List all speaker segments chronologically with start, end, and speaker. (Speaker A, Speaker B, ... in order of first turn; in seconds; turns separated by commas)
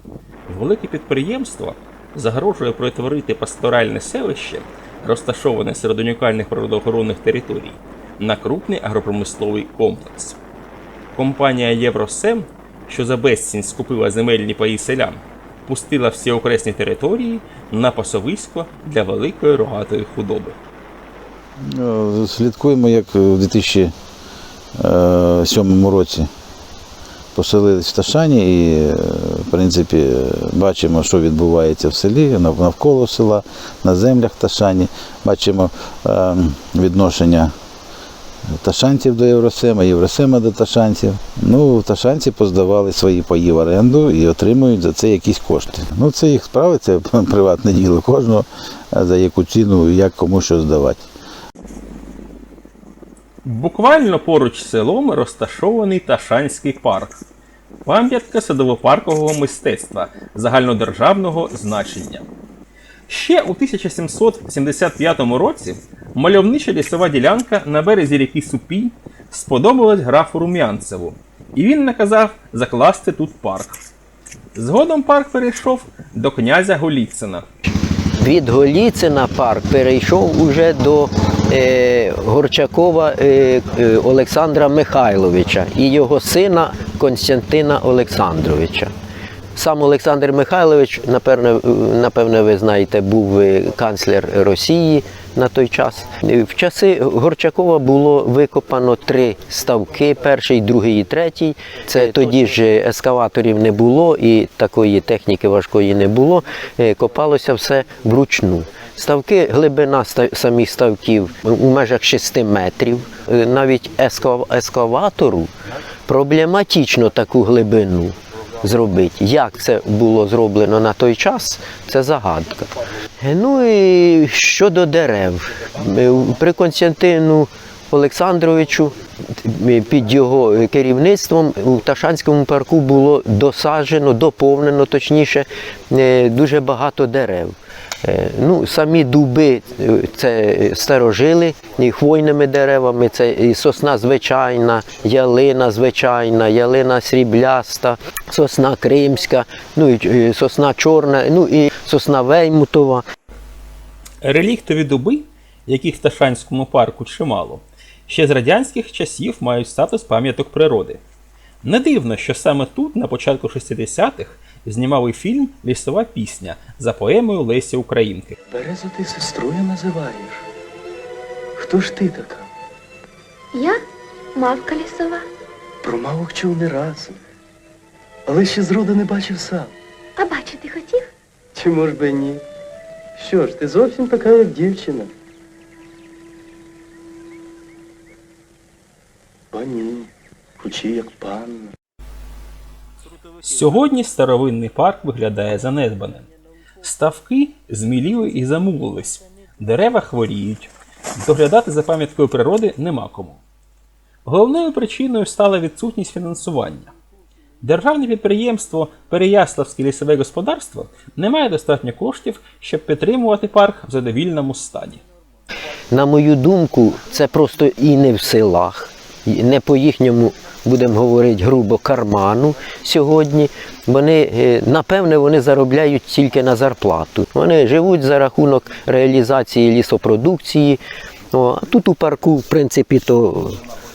Speaker A: 0.5-10.4, Speaker A: 11.1-20.6, Speaker B: 21.6-23.9, Speaker B: 24.8-26.3, Speaker B: 27.4-37.5, Speaker B: 38.5-51.1, Speaker A: 53.4-57.2, Speaker A: 57.8-62.2, Speaker A: 63.1-73.8, Speaker A: 74.5-77.5, Speaker C: 78.2-88.9, Speaker C: 89.5-115.5, Speaker C: 116.1-153.0, Speaker A: 154.2-161.0, Speaker A: 161.6-168.3, Speaker D: 168.5-170.4, Speaker D: 171.6-172.5, Speaker E: 173.5-173.8, Speaker E: 174.3-175.2, Speaker D: 175.8-177.2, Speaker D: 178.3-179.7, Speaker E: 180.2-181.1, Speaker D: 181.5-182.4, Speaker D: 183.2-185.1, Speaker D: 189.5-191.8, Speaker A: 193.4-196.3, Speaker A: 196.8-203.4, Speaker A: 204.2-206.9, Speaker A: 207.6-215.0, Speaker C: 215.9-230.8, Speaker C: 231.3-233.7